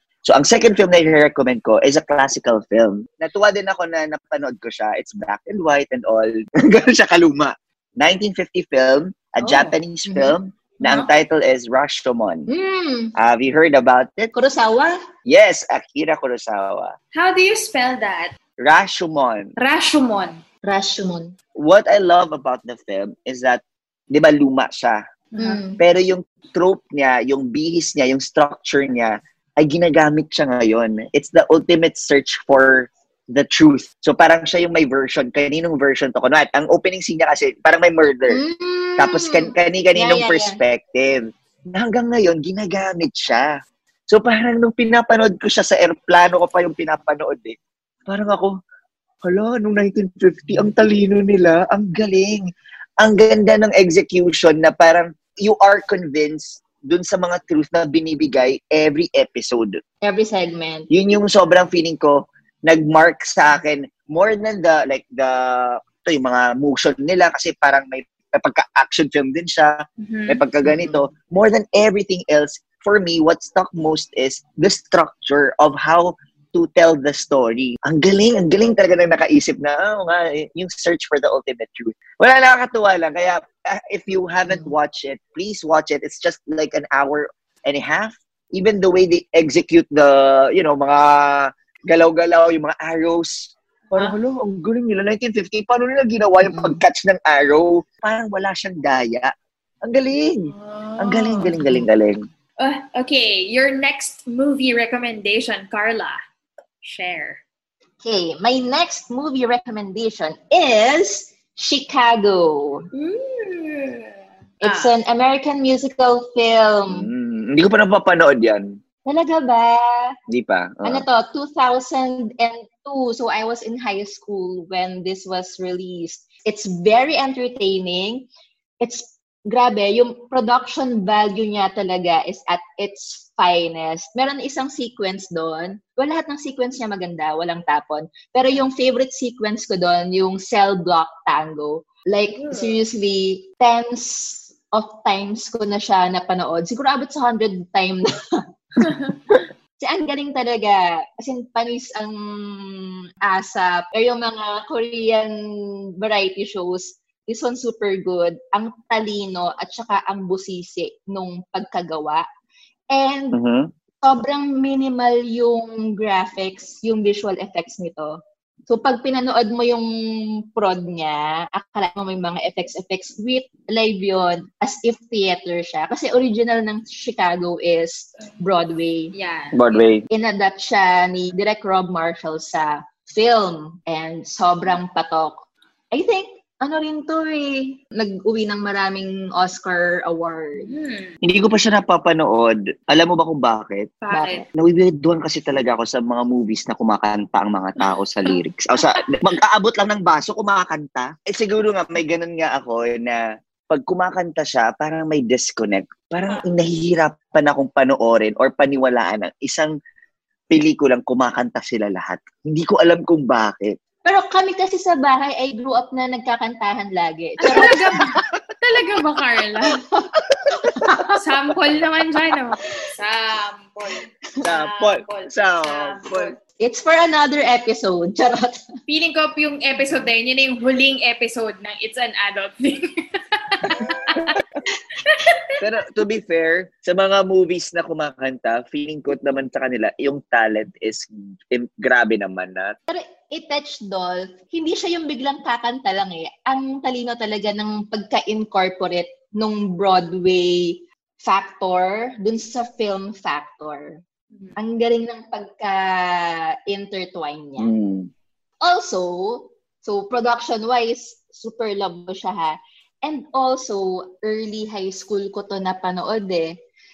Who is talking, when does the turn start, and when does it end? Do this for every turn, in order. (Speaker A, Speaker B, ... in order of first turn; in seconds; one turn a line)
Speaker A: 0.2-12.5
Speaker B: 9.4-9.7
Speaker C: 10.1-10.3
Speaker B: 10.8-11.1
Speaker C: 12.5-13.1
Speaker A: 13.2-14.3
Speaker C: 14.3-15.0
Speaker A: 15.3-16.9
Speaker B: 17.1-18.3
Speaker A: 18.6-19.5
Speaker B: 19.6-20.4
Speaker C: 20.6-21.3
Speaker A: 21.6-25.0
Speaker B: 25.3-25.6
Speaker C: 25.4-25.8
Speaker A: 25.8-38.4
Speaker C: 38.3-40.6
Speaker A: 39.0-43.5
Speaker A: 44.1-47.6
Speaker A: 48.1-48.5
Speaker A: 49.2-52.5
Speaker A: 53.0-59.8
Speaker C: 60.0-60.9
Speaker A: 60.9-69.7
Speaker B: 70.0-70.4
Speaker A: 70.3-102.2
Speaker C: 70.6-71.0
Speaker C: 96.4-96.8
Speaker B: 100.5-101.5
Speaker B: 102.6-106.2
Speaker B: 106.8-107.4
Speaker C: 108.0-112.9
Speaker B: 112.9-114.9
Speaker C: 114.6-117.1
Speaker A: 116.9-118.8
Speaker C: 119.0-120.1
Speaker A: 120.3-121.0
Speaker C: 120.8-128.3
Speaker C: 128.8-148.9
Speaker B: 142.3-142.8
Speaker B: 148.8-149.4
Speaker C: 149.8-155.4
Speaker C: 156.0-162.2
Speaker C: 162.9-163.4
Speaker A: 163.3-163.7
Speaker C: 164.0-168.2
Speaker C: 168.7-169.9
Speaker C: 170.5-179.1
Speaker B: 179.1-179.9
Speaker A: 179.5-180.0
Speaker C: 180.1-190.7
Speaker B: 190.6-191.2
Speaker A: 191.2-193.9
Speaker B: 194.0-194.4
Speaker C: 194.1-194.4
Speaker A: 194.6-209.7
Speaker A: 210.5-213.8
Speaker C: 214.0-218.0
Speaker B: 217.4-219.8
Speaker C: 219.8-220.8
Speaker B: 220.9-226.3
Speaker A: 224.4-226.3
Speaker C: 226.6-228.6
Speaker B: 228.9-234.4
Speaker A: 233.8-234.4
Speaker B: 235.0-235.5
Speaker A: 235.6-242.8
Speaker C: 242.9-254.0
Speaker C: 254.6-257.7
Speaker A: 257.6-258.1
Speaker C: 258.6-266.5